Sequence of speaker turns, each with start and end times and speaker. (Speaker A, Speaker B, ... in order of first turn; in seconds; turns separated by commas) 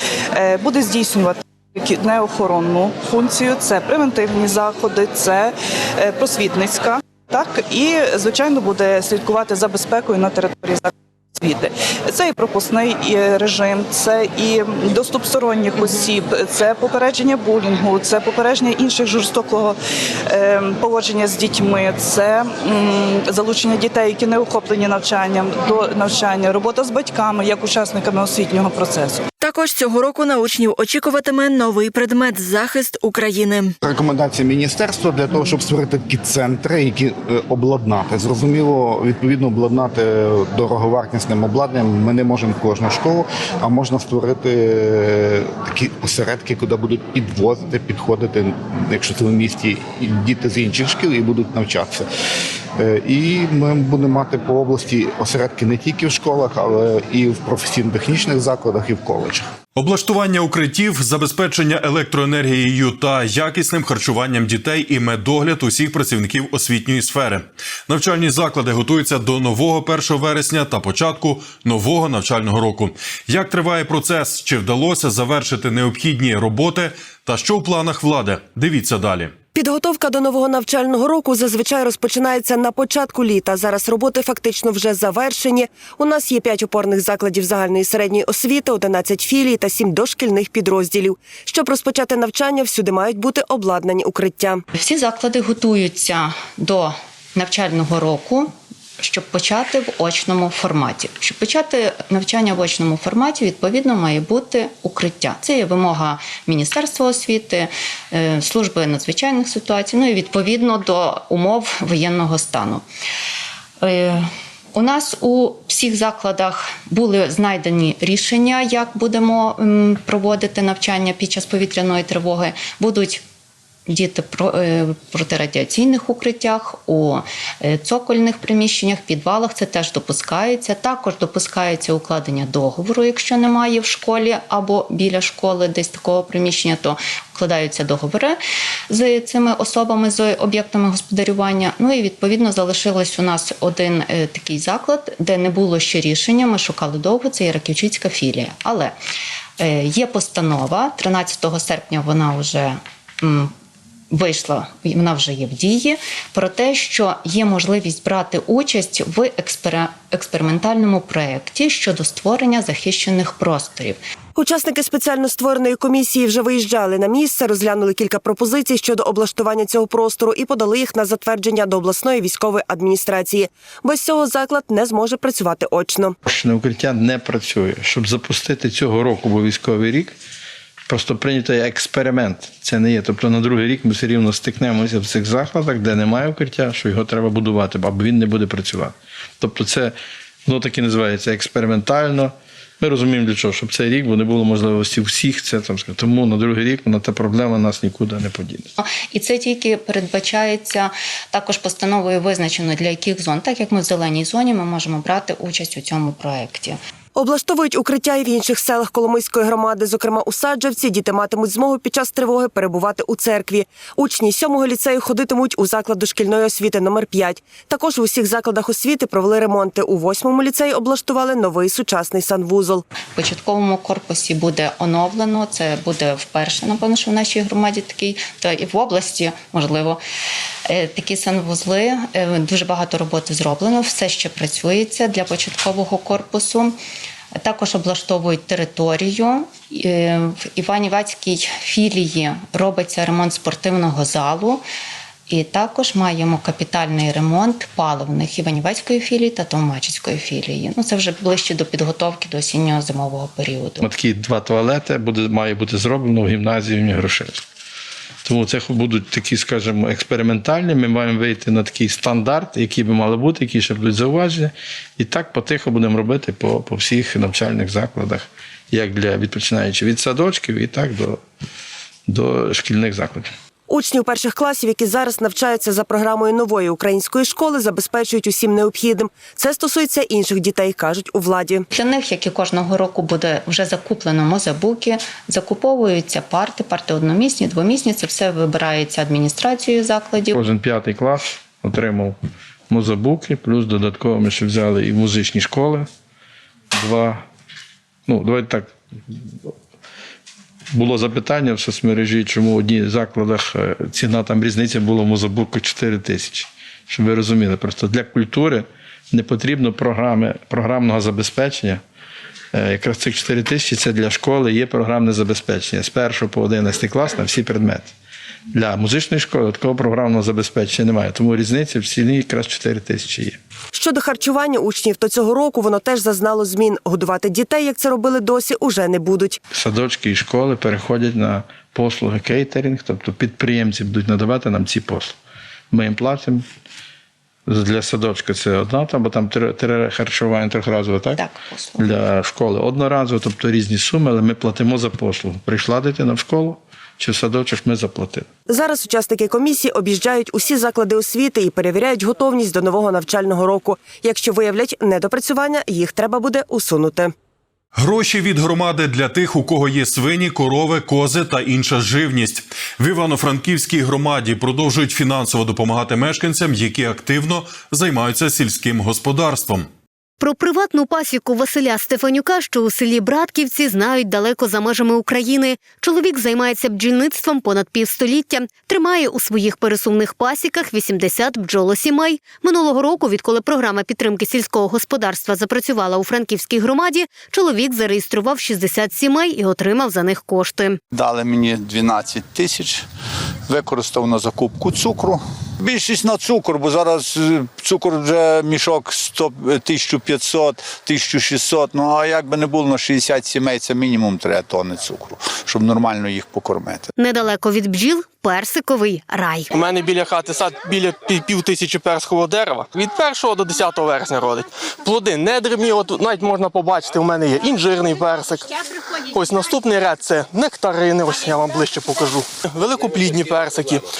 Speaker A: 0.4-19.8, Speaker A: 20.3-29.2, Speaker B: 29.4-33.7, Speaker C: 33.8-52.1, Speaker C: 52.8-59.5, Speaker D: 59.8-79.3, Speaker E: 79.5-94.6, Speaker F: 94.7-112.8, Speaker F: 113.8-123.2, Speaker F: 123.9-138.4, Speaker F: 138.9-148.9, Speaker F: 149.6-153.5, Speaker F: 154.1-164.0, Speaker E: 164.4-176.2, Speaker G: 176.2-180.2, Speaker G: 180.9-189.9, Speaker G: 190.5-198.7, Speaker F: 198.8-206.8, Speaker E: 207.2-222.8, Speaker F: 223.2-230.0, Speaker F: 230.7-236.8, Speaker F: 237.4-244.6, Speaker F: 245.3-253.8, Speaker G: 253.8-257.4, Speaker G: 258.2-271.2, Speaker G: 272.1-273.3, Speaker E: 273.7-281.7, Speaker F: 281.7-290.4, Speaker G: 290.3-292.2, Speaker G: 292.7-295.9, Speaker G: 296.7-297.2, Speaker G: 298.1-299.5, Speaker G: 300.7-311.8, Speaker G: 312.5-317.9, Speaker G: 318.5-323.4, Speaker E: 323.7-329.4, Speaker G: 329.5-335.2, Speaker G: 335.7-336.4, Speaker G: 337.5-341.2, Speaker F: 341.2-341.9, Speaker G: 341.8-348.3, Speaker E: 348.5-357.1, Speaker D: 357.8-369.7, Speaker H: 370.2-390.8, Speaker I: 390.9-392.8, Speaker I: 393.5-406.9, Speaker H: 407.0-409.5, Speaker J: 409.8-418.4, Speaker J: 419.2-423.8